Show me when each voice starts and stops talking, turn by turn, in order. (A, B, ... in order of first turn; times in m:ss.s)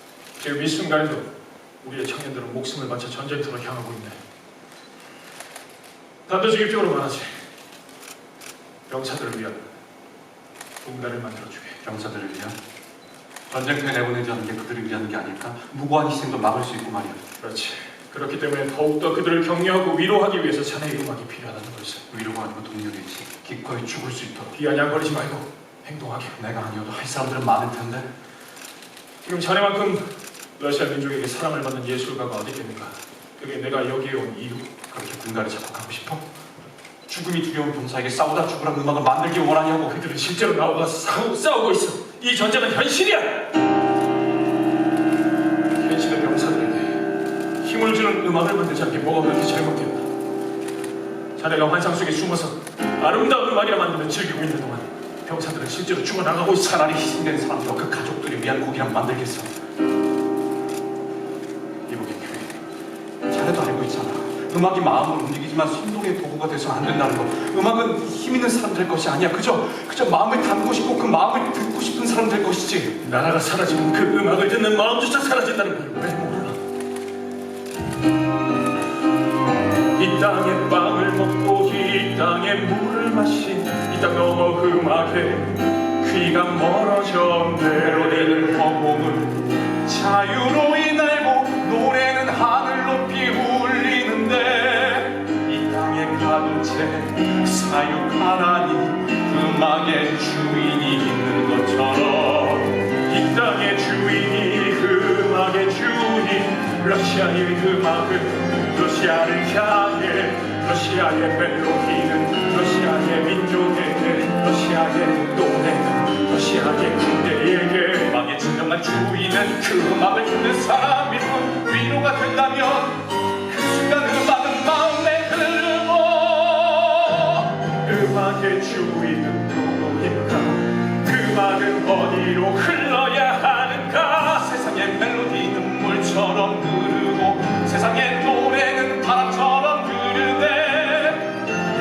0:00.4-0:01.2 A
0:01.8-0:04.2 A
0:06.3-0:07.3 A
0:08.9-0:09.6 A
0:10.8-0:11.8 A
0:11.8-0:12.6 B
0:13.5-0:17.2 B
0:17.4-0:22.0 A
0:22.1-0:24.5 B
0:24.5-0:26.4 A
0:26.4-0:28.1 B
0:29.2-0:30.0 A
0:30.6-0:34.7 A
0:34.9-0:36.2 B
0:37.1-0:40.0 B
0:39.9-0:43.5 A
0:45.7-0:47.0 A
0:47.6-0:50.0 A
0:51.4-0:56.7 A
0:56.5-0:59.5 B
1:01.9-1:02.5 B
1:03.3-1:13.0 B
1:13.0-1:16.6 A
1:20.0-1:28.6 A
1:27.8-1:42.8 B
1:42.9-1:58.1 A
1:58.1-2:07.5 B
2:07.6-2:14.4 A
2:14.4-2:21.3 B